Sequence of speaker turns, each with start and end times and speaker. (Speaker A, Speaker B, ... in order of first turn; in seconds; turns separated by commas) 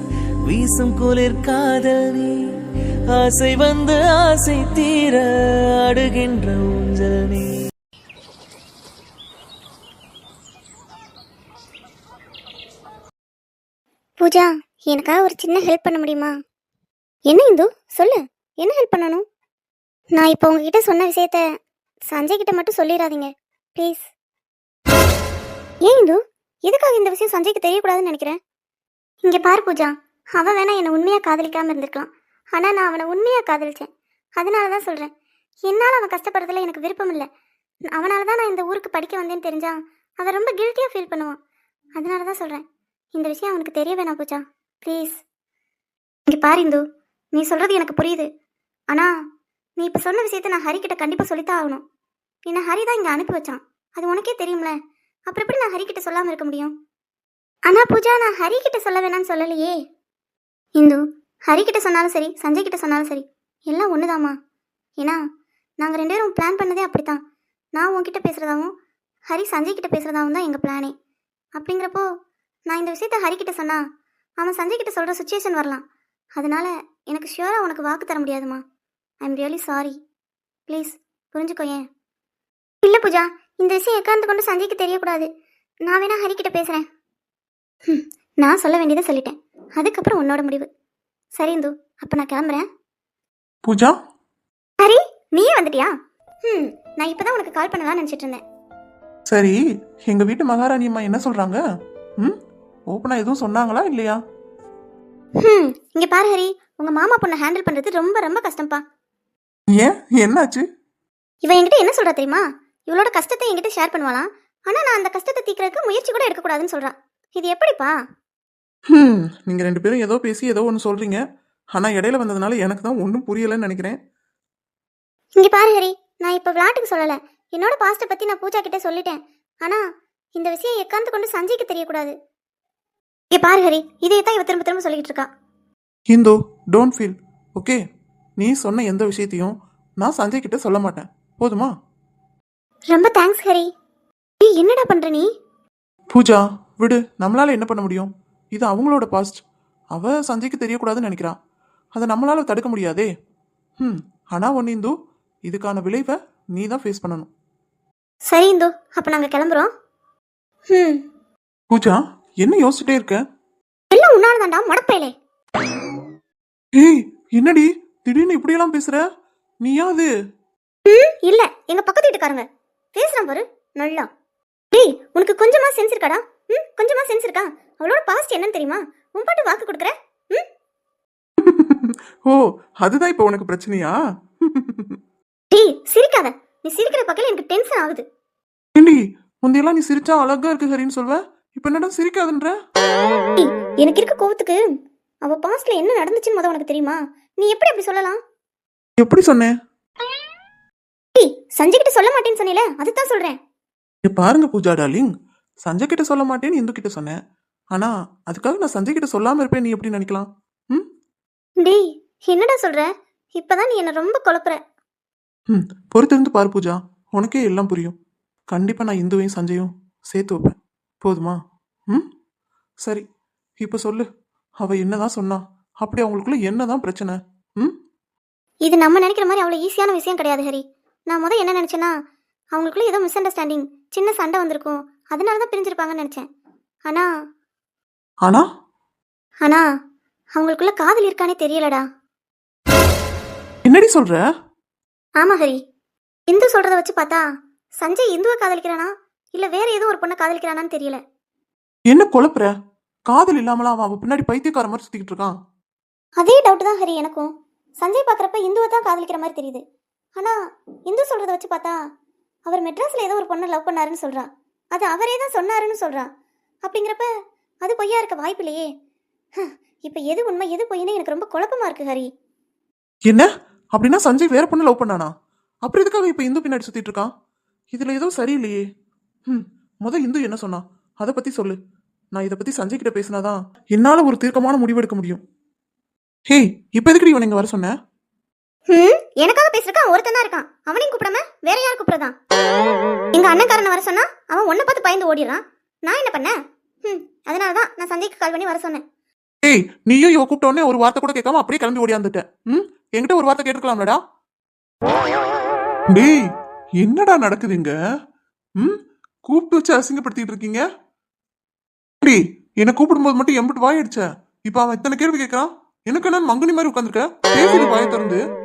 Speaker A: 0.5-2.4, Speaker A: 3.1-5.3, Speaker A: 5.8-7.5, Speaker B: 14.2-16.3, Speaker B: 17.3-19.2, Speaker B: 20.1-21.4, Speaker B: 22.1-24.1, Speaker B: 25.8-28.4, Speaker B: 29.2-35.1, Speaker B: 35.7-37.3, Speaker B: 37.9-41.4, Speaker B: 42.0-42.6, Speaker B: 43.1-45.2, Speaker B: 46.3-46.8, Speaker B: 47.3-48.3, Speaker B: 49.8-51.8, Speaker B: 52.5-54.8, Speaker B: 55.3-56.7, Speaker B: 57.7-59.8, Speaker B: 60.8-64.3, Speaker B: 65.8-67.2, Speaker B: 67.8-68.7, Speaker B: 69.3-70.9, Speaker B: 71.6-72.1, Speaker B: 72.7-73.8, Speaker B: 74.4-75.8, Speaker B: 76.4-78.6, Speaker B: 79.2-80.0, Speaker B: 80.7-81.8, Speaker B: 82.8-85.3, Speaker B: 85.9-86.8, Speaker B: 87.9-90.7, Speaker B: 91.3-92.7, Speaker C: 93.7-94.0, Speaker B: 94.8-95.9, Speaker B: 96.5-98.4, Speaker C: 99.3-101.6, Speaker C: 102.9-104.2, Speaker B: 105.4-108.8, Speaker C: 109.7-110.6, Speaker B: 111.4-118.0, Speaker C: 118.9-121.2, Speaker C: 121.7-124.0, Speaker B: 125.4-129.8, Speaker B: 130.3-132.1, Speaker B: 133.3-135.3, Speaker C: 136.1-137.8, Speaker C: 138.4-141.7, Speaker B: 142.9-143.7, Speaker B: 144.4-145.3, Speaker C: 146.1-149.4, Speaker C: 149.9-151.3, Speaker C: 151.9-153.1, Speaker C: 153.8-154.9, Speaker C: 155.5-157.3, Speaker B: 158.3-159.7, Speaker B: 160.7-161.0, Speaker C: 161.7-163.2, Speaker B: 163.9-165.1, Speaker C: 166.7-169.1, Speaker C: 169.6-170.1, Speaker B: 170.9-174.1, Speaker B: 174.7-180.4, Speaker C: 181.4-185.0, Speaker B: 185.5-188.0, Speaker C: 188.8-192.6, Speaker B: 193.4-194.7, Speaker B: 195.2-198.2, Speaker C: 199.0-199.5, Speaker B: 201.2-203.4, Speaker C: 204.0-207.2, Speaker C: 207.7-210.8, Speaker B: 211.6-214.6, Speaker C: 215.5-218.0, Speaker C: 218.5-221.4, Speaker C: 223.6-224.1, Speaker C: 224.6-227.7, Speaker B: 228.7-231.9, Speaker B: 232.5-236.3, Speaker B: 240.4-241.8, Speaker C: 243.7-244.2, Speaker B: 245.2-245.6, Speaker B: 246.3-247.2, Speaker B: 247.8-251.0, Speaker C: 251.9-252.5, Speaker C: 253.1-255.3, Speaker B: 256.2-259.6, Speaker B: 260.1-261.8, Speaker B: 262.5-266.1, Speaker B: 266.6-267.1, Speaker B: 267.6-268.7, Speaker B: 269.4-272.1, Speaker C: 273.1-275.1, Speaker C: 275.6-277.1, Speaker C: 277.7-278.6, Speaker C: 279.3-281.6, Speaker C: 282.1-285.2, Speaker C: 286.3-287.8, Speaker B: 288.7-292.1, Speaker B: 293.1-298.8, Speaker C: 299.4-304.0, Speaker C: 305.9-306.2, Speaker C: 306.8-307.7, Speaker C: 308.6-310.6, Speaker C: 312.0-318.2